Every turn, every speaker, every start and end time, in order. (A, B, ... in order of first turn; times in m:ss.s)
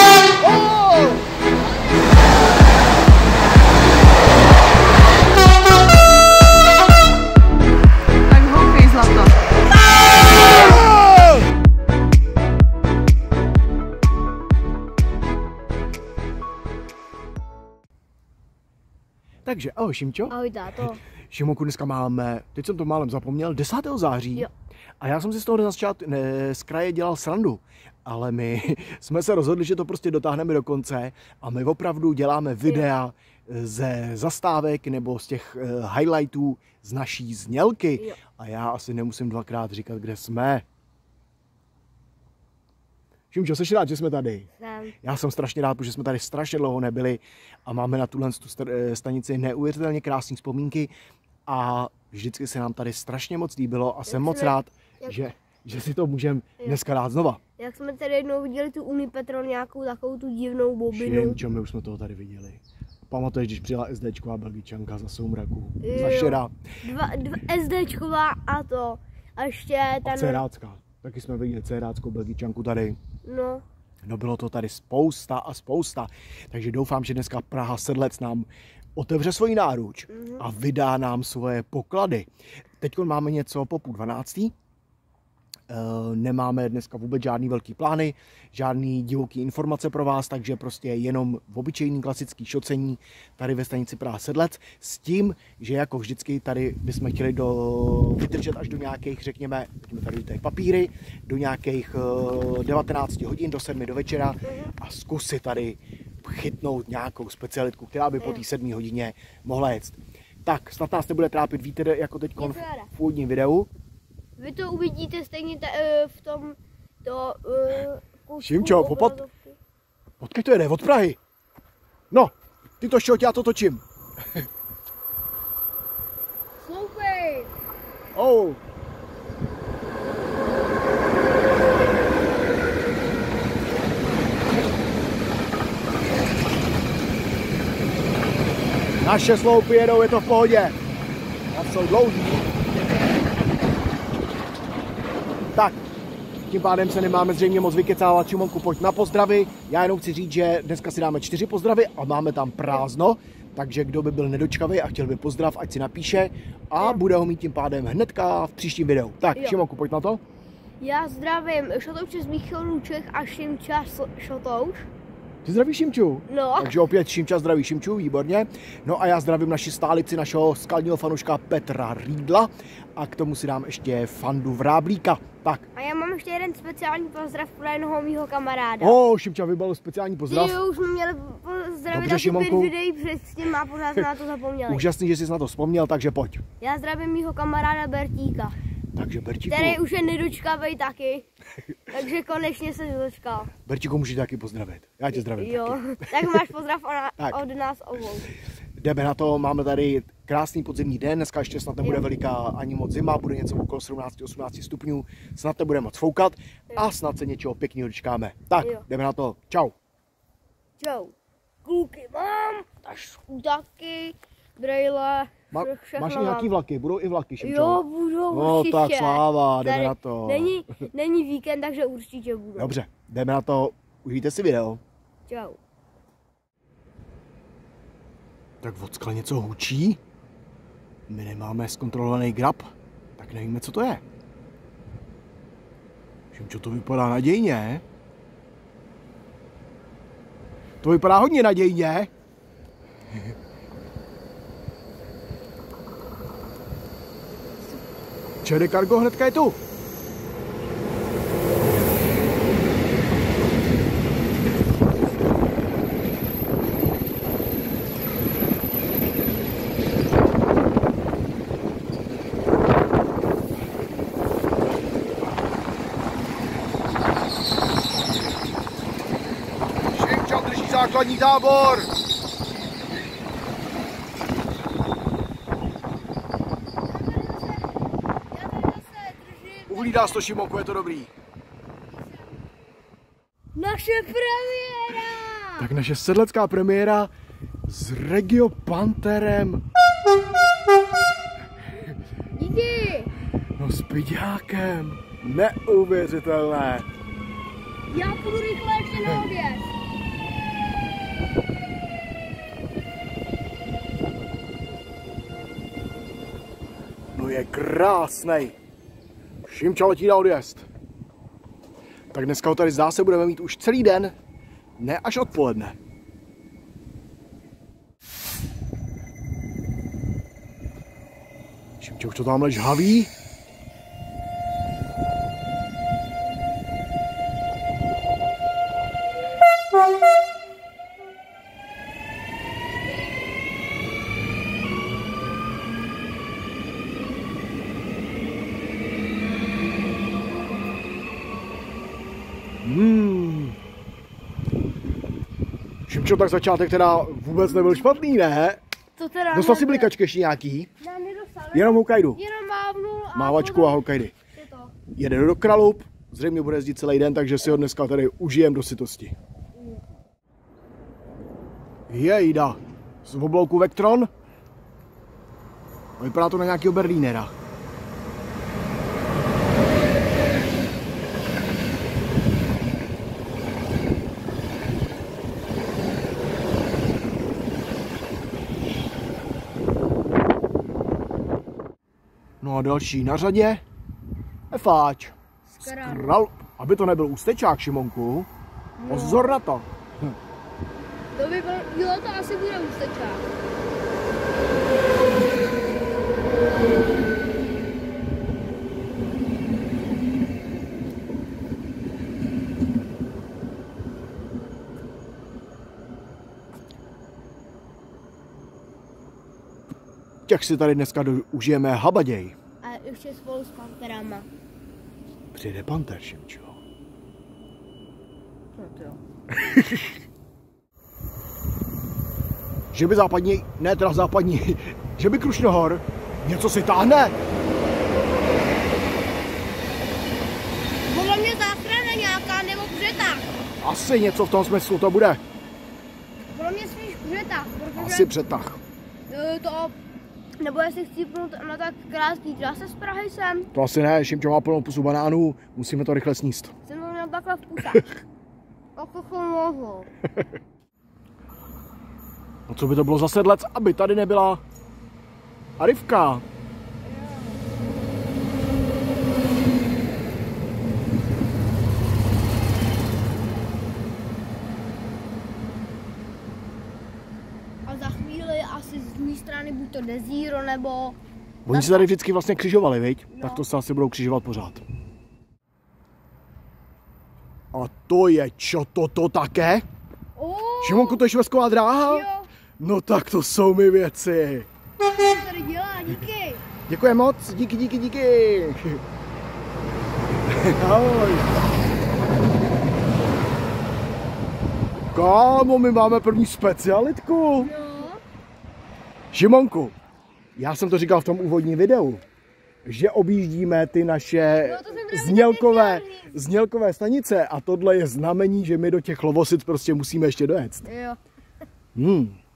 0:00.4-0:01.3 A
0:01.6-0:02.0 B
0:10.6-0:11.4 A
0:19.4-0:20.3 A
0:20.3-0:21.0 B
0:21.3-0:24.5 A
0:25.0-0:40.6 A
0:43.3-0:44.5 A
0:44.6-0:44.9 B
0:45.0-0:50.9 A
0:51.4-0:57.4 A
0:54.1-0:55.2 B
0:57.6-1:01.4 B
1:00.9-1:06.5 A
1:05.8-1:10.4 B
1:10.0-1:13.0 A
1:13.2-1:13.6 B
1:14.0-1:22.3 A
1:20.1-1:20.4 B
1:22.8-1:24.5 A
1:25.7-1:53.7 A
1:44.4-1:44.7 B
1:48.2-1:48.4 B
1:52.4-1:52.9 B
1:54.4-1:59.6 B
1:58.4-1:59.2 A
2:00.2-2:01.2 A
2:02.1-2:04.5 A
2:06.6-2:07.5 B
2:08.1-2:08.6 A
2:19.0-2:20.8 A
2:21.5-2:22.5 A
2:26.5-2:40.2 A
2:36.8-2:37.0 B
2:39.3-2:39.6 B
2:40.8-2:44.9 B
2:45.4-2:55.6 A
2:46.3-2:46.8 B
2:55.7-2:59.0 B
2:58.8-3:00.6 A
3:00.3-3:04.9 B
3:01.9-3:02.7 A
3:04.7-3:06.4 A
3:06.6-3:08.6 B
3:08.9-3:09.8 A
3:09.5-3:11.3 B
3:11.9-3:13.5 B
3:13.6-3:16.4 A
3:15.1-3:18.3 B
3:18.8-3:29.7 A
3:28.6-3:28.8 B
3:30.8-3:31.1 B
3:31.6-3:36.5 B
3:35.5-3:40.8 A
3:37.4-3:42.7 B
3:42.6-3:44.8 A
3:45.3-3:45.6 B
3:48.6-3:50.0 A
3:51.1-3:54.0 A
3:56.3-3:57.8 A
4:00.8-4:02.1 A
4:08.4-4:09.6 A
4:29.9-4:31.9 A
4:36.9-4:37.7 B
4:38.3-4:40.2 B
4:39.7-4:41.1 A
4:43.5-4:45.7 B
4:45.6-4:47.1 A
4:47.6-4:49.6 A
4:52.4-4:53.1 B
4:53.6-4:56.9 A
4:57.9-4:59.6 B
5:07.1-5:08.5 A
5:09.4-5:10.6 A
5:12.1-5:14.1 A
5:14.8-5:15.8 A
5:21.8-5:23.1 A
5:42.6-5:43.6 A
5:45.9-5:48.6 A
5:49.0-5:49.9 B
5:49.3-5:50.7 A
5:50.8-5:54.7 B
5:51.5-5:52.2 A
5:53.2-5:54.1 A
5:54.9-5:59.1 A
6:01.9-6:04.1 A
6:06.0-6:07.3 A
6:22.4-6:23.6 A
6:24.5-6:28.3 A
6:25.4-6:26.1 B
6:28.8-6:29.4 B
6:28.9-6:30.2 A
6:31.1-6:33.2 B
6:50.3-6:52.4 A
6:52.6-6:54.3 B
6:55.3-6:56.6 A
6:58.6-6:59.0 B
6:59.3-6:59.9 A
7:02.7-7:07.2 A
7:10.8-7:13.2 B
7:13.6-7:15.2 A
7:16.3-7:18.1 B
7:17.8-7:18.6 A
7:19.1-7:19.7 B
7:20.4-7:23.5 B
7:23.5-7:26.5 A
7:26.7-7:27.9 B
7:28.8-7:29.9 B
7:32.5-7:34.4 A
7:35.6-7:36.2 A
7:36.9-7:37.4 B
7:47.6-7:51.0 B
7:51.4-7:54.6 A
7:51.5-7:51.9 B
7:53.1-7:53.4 B
7:57.5-7:59.6 A
8:00.2-8:01.0 B
8:00.6-8:02.1 A
8:01.8-8:02.3 B
8:02.6-8:04.5 A
8:04.8-8:06.4 B
8:06.7-8:08.8 A
8:10.2-8:11.2 A
8:14.9-8:17.5 A
8:17.4-8:18.0 B
8:19.1-8:19.7 A
8:20.4-8:22.0 A
8:22.6-8:30.7 A
8:24.4-8:26.2 B
8:30.6-8:31.0 B
8:31.7-8:32.2 A